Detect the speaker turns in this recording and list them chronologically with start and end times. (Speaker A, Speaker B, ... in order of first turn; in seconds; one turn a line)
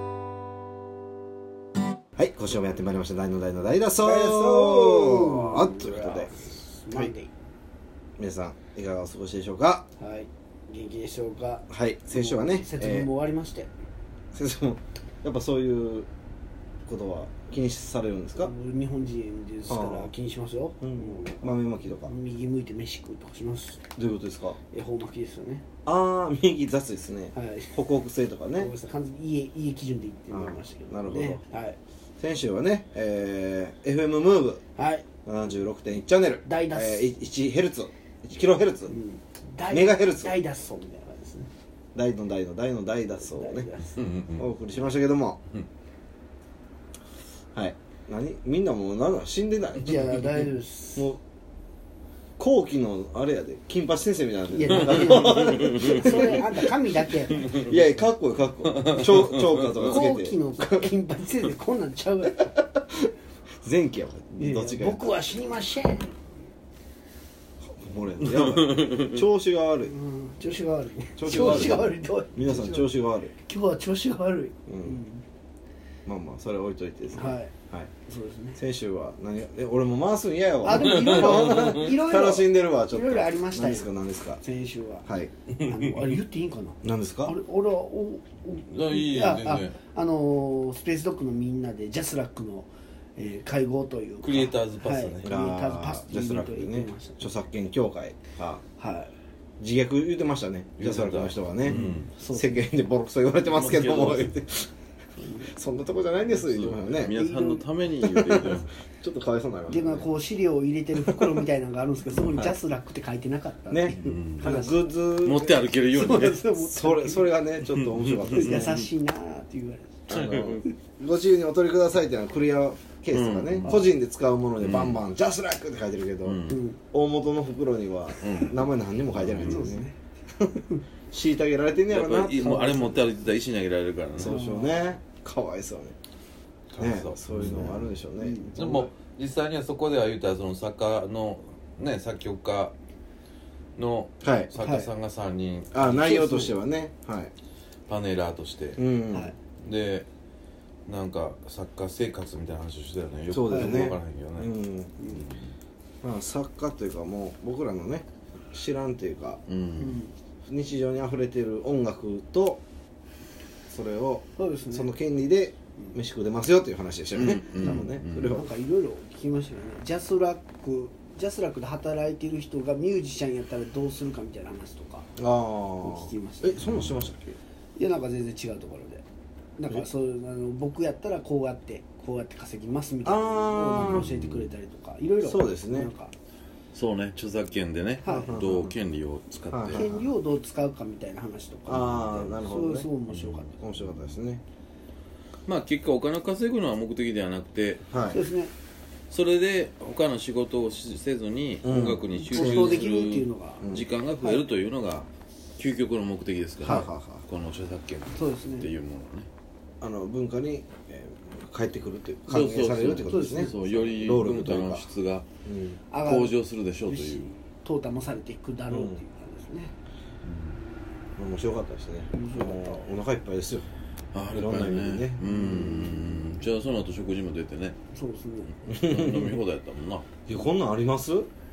Speaker A: 2.2-7.1
Speaker B: 4.0-7.3
Speaker A: 8.2-9.9
Speaker B: 10.0-13.7
Speaker A: 11.7-13.1
Speaker A: 14.3-16.1
Speaker A: 16.9-18.5
Speaker B: 18.4-23.8
Speaker A: 19.7-20.1
Speaker A: 20.8-22.1
Speaker A: 24.0-24.6
Speaker B: 24.7-25.6
Speaker A: 25.9-28.7
Speaker B: 27.3-27.7
Speaker B: 28.6-31.8
Speaker A: 30.3-31.4
Speaker A: 32.2-34.6
Speaker B: 34.8-35.1
Speaker A: 35.2-39.0
Speaker B: 36.5-37.1
Speaker B: 38.9-41.5
Speaker A: 39.7-40.4
Speaker A: 41.9-43.7
Speaker B: 43.2-44.0
Speaker C: 44.0-44.5
Speaker A: 44.4-45.4
Speaker A: 47.5-50.2
Speaker B: 49.8-51.1
Speaker A: 51.0-51.2
Speaker A: 52.4-56.6
Speaker B: 54.5-57.6
Speaker C: 54.9-56.4
Speaker C: 57.3-57.8
Speaker A: 57.4-60.4
Speaker C: 58.7-60.0
Speaker B: 59.8-62.5
Speaker A: 63.6-65.1
Speaker B: 64.4-66.2
Speaker A: 67.6-69.9
Speaker C: 68.2-69.3
Speaker B: 69.9-75.2
Speaker A: 71.2-73.3
Speaker C: 71.3-71.8
Speaker A: 74.7-75.0
Speaker A: 76.1-77.9
Speaker B: 77.1-77.5
Speaker B: 78.0-78.6
Speaker A: 78.6-84.4
Speaker B: 80.6-83.9
Speaker C: 80.7-81.9
Speaker B: 84.4-97.3
Speaker A: 85.0-85.3
Speaker A: 86.8-87.4
Speaker C: 88.7-89.8
Speaker C: 94.2-95.3
Speaker A: 95.2-98.6
Speaker B: 98.8-99.1
Speaker A: 99.6-104.7
Speaker C: 100.8-102.1
Speaker B: 101.7-102.6
Speaker C: 103.4-104.4
Speaker B: 105.2-105.5
Speaker A: 105.3-107.2
Speaker C: 106.3-108.7
Speaker B: 107.0-107.7
Speaker A: 108.0-110.1
Speaker B: 109.7-115.0
Speaker A: 112.1-112.5
Speaker A: 113.7-115.7
Speaker C: 113.9-114.6
Speaker C: 115.2-116.5
Speaker B: 115.9-117.4
Speaker A: 116.5-118.8
Speaker C: 117.6-118.8
Speaker B: 118.3-120.7
Speaker A: 120.1-130.6
Speaker C: 120.1-120.6
Speaker C: 123.1-123.8
Speaker C: 124.6-125.0
Speaker C: 126.2-126.7
Speaker B: 126.5-126.8
Speaker C: 128.2-128.6
Speaker C: 129.1-129.7
Speaker B: 129.4-130.0
Speaker A: 131.1-133.0
Speaker C: 131.9-134.4
Speaker A: 134.2-136.0
Speaker B: 134.2-134.9
Speaker C: 136.7-138.0
Speaker A: 136.8-138.9
Speaker B: 138.2-138.8
Speaker C: 138.6-142.8
Speaker C: 143.8-146.2
Speaker A: 144.2-144.5
Speaker B: 144.6-144.9
Speaker A: 145.7-147.3
Speaker B: 145.9-146.6
Speaker C: 147.9-148.8
Speaker A: 148.8-149.3
Speaker C: 149.6-150.1
Speaker C: 150.9-154.5
Speaker A: 153.3-155.0
Speaker B: 153.5-153.9
Speaker B: 155.0-155.3
Speaker C: 155.1-155.3
Speaker A: 156.0-159.4
Speaker C: 159.5-160.0
Speaker B: 159.8-160.1
Speaker A: 160.5-162.6
Speaker A: 163.7-168.5
Speaker B: 164.4-164.9
Speaker C: 167.1-168.4
Speaker B: 167.6-175.1
Speaker A: 175.2-177.4
Speaker B: 175.8-176.6
Speaker C: 176.7-176.9
Speaker B: 177.8-179.0
Speaker B: 179.6-186.1
Speaker A: 183.0-184.1
Speaker C: 183.8-184.5
Speaker A: 185.2-185.9
Speaker C: 186.7-189.9
Speaker B: 188.0-188.4
Speaker A: 188.1-188.8
Speaker A: 189.5-190.1
Speaker B: 189.7-193.5
Speaker A: 191.7-192.9
Speaker C: 193.1-194.2
Speaker A: 193.6-194.4
Speaker C: 195.5-197.9
Speaker A: 197.9-198.2
Speaker B: 198.1-198.5
Speaker C: 199.1-209.3
Speaker A: 201.6-202.9
Speaker B: 202.1-204.4
Speaker A: 203.6-203.9
Speaker A: 206.6-207.2
Speaker B: 208.1-208.7
Speaker A: 209.8-214.9
Speaker C: 212.3-215.3
Speaker B: 213.0-214.0
Speaker A: 215.4-215.8
Speaker B: 215.9-219.8
Speaker C: 216.0-217.3
Speaker A: 218.7-219.0
Speaker C: 220.2-220.6
Speaker A: 221.2-223.8
Speaker B: 222.1-222.9
Speaker C: 224.1-227.8
Speaker A: 224.3-226.1
Speaker B: 225.3-226.2
Speaker B: 227.9-228.5
Speaker A: 228.7-229.4
Speaker C: 228.7-230.1
Speaker A: 230.3-231.3